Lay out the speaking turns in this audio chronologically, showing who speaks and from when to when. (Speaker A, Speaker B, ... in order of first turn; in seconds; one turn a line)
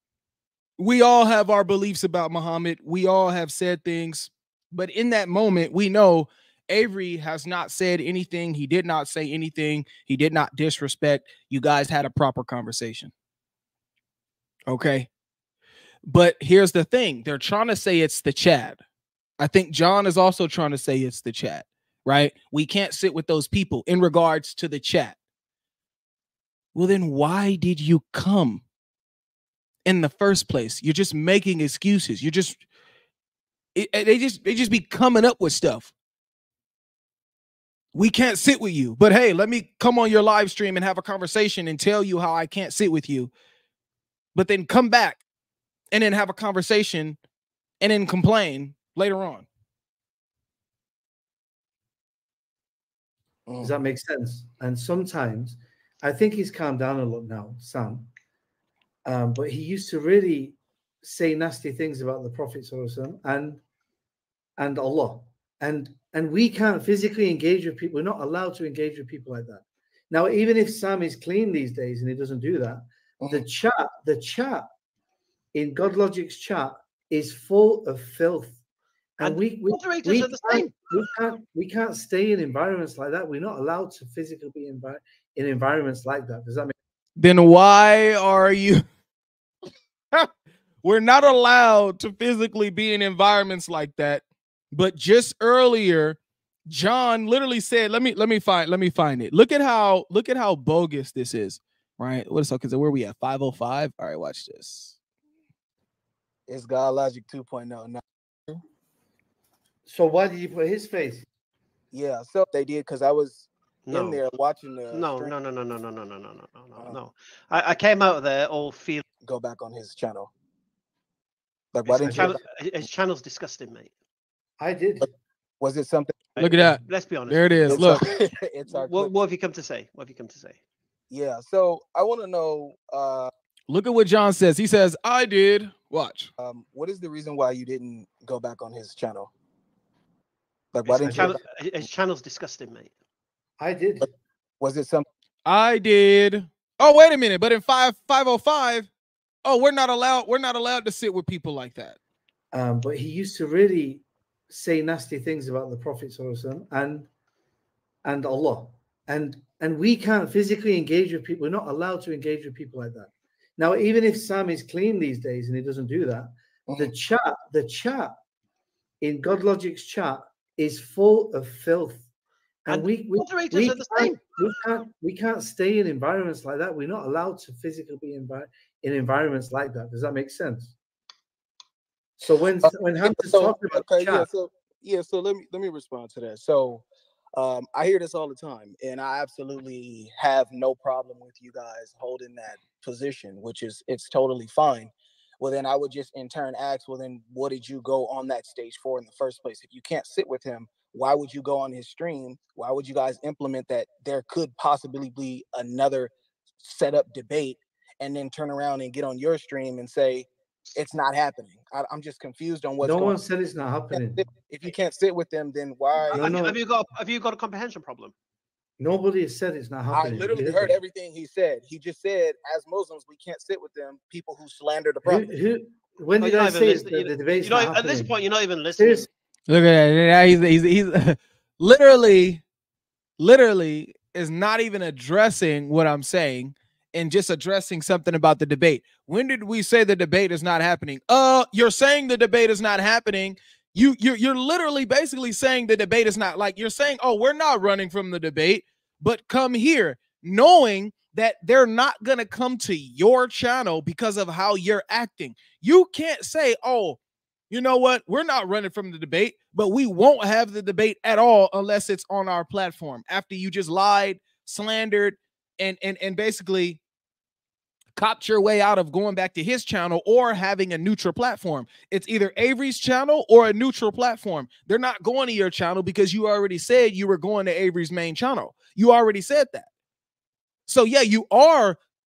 Speaker A: 0.8-13.1
Speaker A: 14.7-15.1
Speaker A: 16.1-18.8
Speaker A: 19.4-25.2
Speaker A: 26.8-28.6
Speaker A: 29.9-32.6
Speaker A: 33.8-35.9
Speaker A: 37.9-43.3
Speaker A: 44.4-45.2
Speaker A: 45.9-47.2
Speaker A: 47.8-49.5
Speaker B: 53.5-53.7
Speaker C: 53.6-58.1
Speaker C: 59.0-63.6
Speaker C: 64.6-74.7
Speaker B: 73.2-73.5
Speaker C: 75.5-78.6
Speaker C: 79.2-86.7
Speaker D: 79.2-80.9
Speaker A: 87.2-88.8
Speaker A: 90.8-105.0
Speaker B: 106.5-108.6
Speaker C: 109.9-111.3
Speaker B: 111.9-115.3
Speaker D: 113.9-114.2
Speaker D: 114.9-119.0
Speaker B: 119.2-120.3
Speaker B: 121.7-122.4
Speaker C: 122.0-122.4
Speaker D: 122.1-123.9
Speaker C: 124.6-125.1
Speaker B: 125.6-126.3
Speaker D: 126.4-128.0
Speaker A: 126.4-128.1
Speaker B: 127.7-129.1
Speaker D: 128.7-130.6
Speaker B: 131.1-133.3
Speaker A: 133.7-136.3
Speaker B: 136.4-139.3
Speaker B: 140.7-141.4
Speaker D: 140.8-142.9
Speaker C: 143.6-144.1
Speaker B: 144.6-145.1
Speaker A: 145.5-148.9
Speaker A: 149.4-152.0
Speaker C: 152.5-157.1
Speaker C: 158.0-168.2
Speaker C: 169.0-172.1
Speaker C: 172.7-180.8
Speaker D: 172.7-174.4
Speaker C: 182.2-184.3
Speaker B: 182.6-213.2
Speaker C: 212.8-214.2
Speaker B: 213.9-216.3
Speaker C: 216.1-216.6
Speaker D: 216.1-218.1
Speaker C: 218.8-220.8
Speaker B: 219.9-225.3
Speaker C: 225.0-228.1
Speaker D: 226.2-229.1
Speaker C: 228.8-229.1
Speaker A: 229.5-232.4
Speaker A: 233.2-257.0
Speaker A: 257.5-266.8
Speaker A: 268.0-279.7
Speaker A: 280.7-281.8